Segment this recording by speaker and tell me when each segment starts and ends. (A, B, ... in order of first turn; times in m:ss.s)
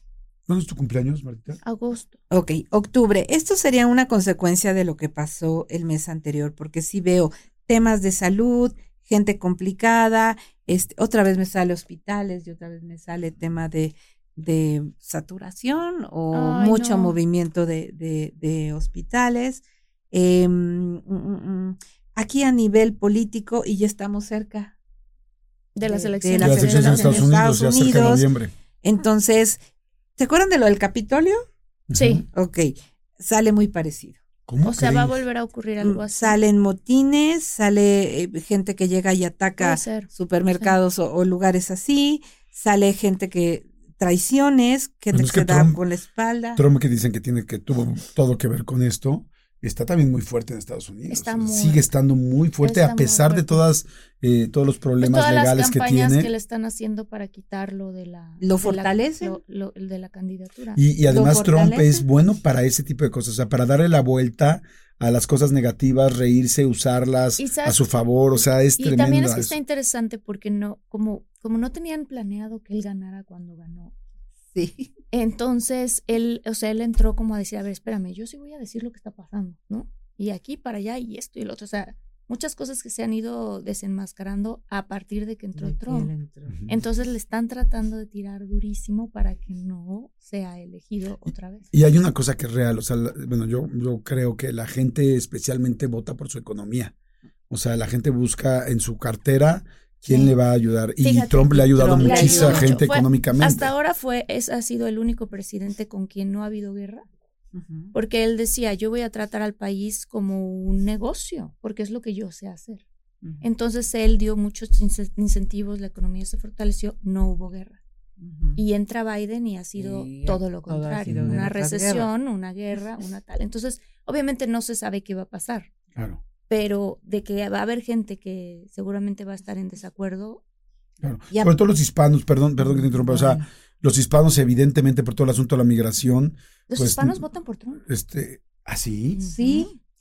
0:00.5-0:01.6 A
0:01.6-0:02.2 B
0:02.3-0:24.8 C
0:16.3-0:17.1 B
0:25.8-0:27.3 B
0:25.8-0:28.3 C
0:26.4-0:28.5 A
0:28.8-0:29.6 C
0:30.2-0:31.4 C
0:31.9-0:32.2 A
0:31.9-0:32.2 B
0:32.3-0:34.2 C
0:34.5-0:35.2 A
0:34.6-0:36.4 B
0:35.8-0:46.6 C
0:39.6-0:40.8 B
0:45.1-0:45.8 A
0:46.6-0:56.3 A
0:51.1-0:51.9 B
0:52.6-0:53.6 B
0:55.0-1:00.8 B
0:58.4-0:59.4 C
1:00.8-1:09.6 A
1:01.1-1:02.0 C
1:07.4-1:07.9 B
1:08.8-1:13.9 B
1:14.6-1:14.9 C
1:15.1-1:26.1 B
1:25.6-1:26.6 C
1:26.5-1:26.8 A
1:26.7-1:31.7 B
1:31.7-1:36.9 A
1:37.5-1:43.7 A
1:40.1-1:40.3 B
1:41.0-1:47.0 B
1:41.7-1:42.8 C
1:47.5-1:47.9 C
1:47.9-1:52.8 B
1:53.4-1:57.8 B
1:58.2-1:58.6 C
1:58.6-2:05.7 B
1:59.8-2:02.1 C
2:01.1-2:01.5 A
2:06.5-2:10.4 B
2:11.0-2:17.2 A
2:12.6-2:13.5 C
2:16.7-2:17.8 B
2:17.9-2:19.2 A
2:19.1-2:19.8 B
2:19.3-2:19.7 C